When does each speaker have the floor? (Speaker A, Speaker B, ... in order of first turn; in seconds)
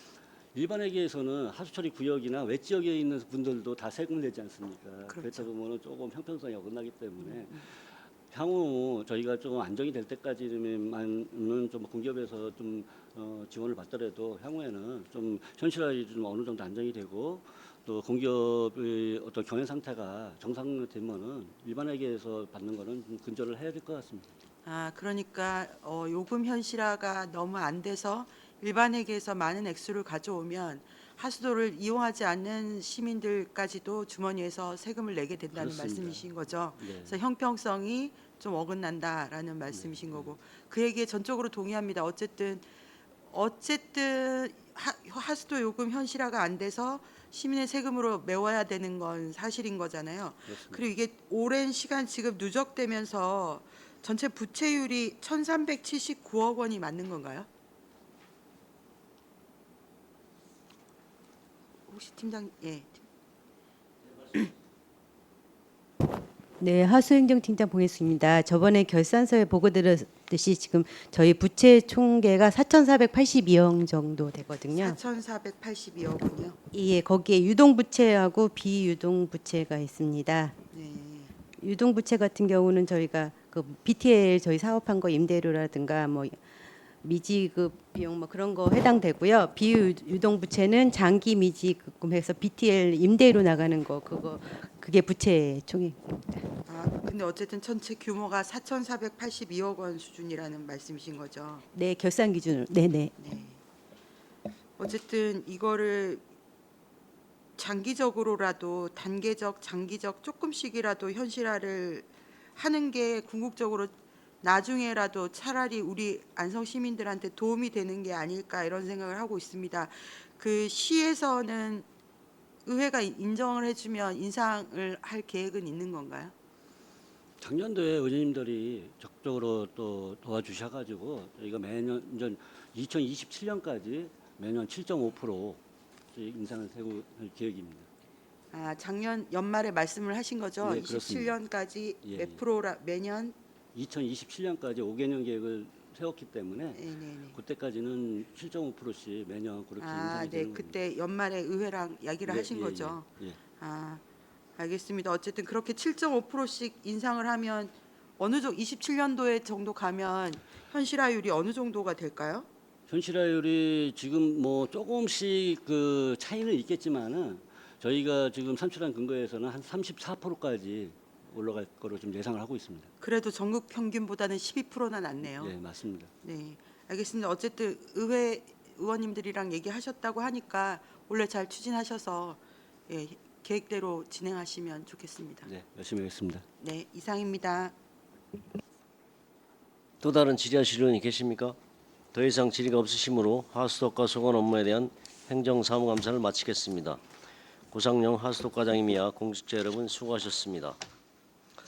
Speaker A: 0.5-24.3, 35.5-36.3, 36.8-37.2, 39.7-40.4, 50.5-50.8, 127.4-135.6, 136.1-137.9, 140.6-141.3, 142.0-142.4, 143.7-146.8, 147.3-150.8, 152.2-153.4, 162.9-172.9, 175.2-176.1, 185.4-186.4
Speaker B: 5.1-5.5, 7.2-7.6, 24.6-42.6, 43.3-57.5, 61.9-63.0, 74.7-76.6, 80.7-81.3, 96.7-101.6, 103.2-103.6, 104.8-106.2, 107.6-121.9, 122.6-126.3, 138.5-143.4, 146.7-147.4, 149.8-153.0, 153.6-154.0, 154.6-162.5, 173.0-175.5, 176.2-185.5, 186.6-187.7
Speaker C: 66.6-75.0, 76.7-80.5, 81.5-86.4, 87.0-96.5, 101.7-103.1
Speaker D: 190.0-191.6, 192.1-197.0, 197.7-200.8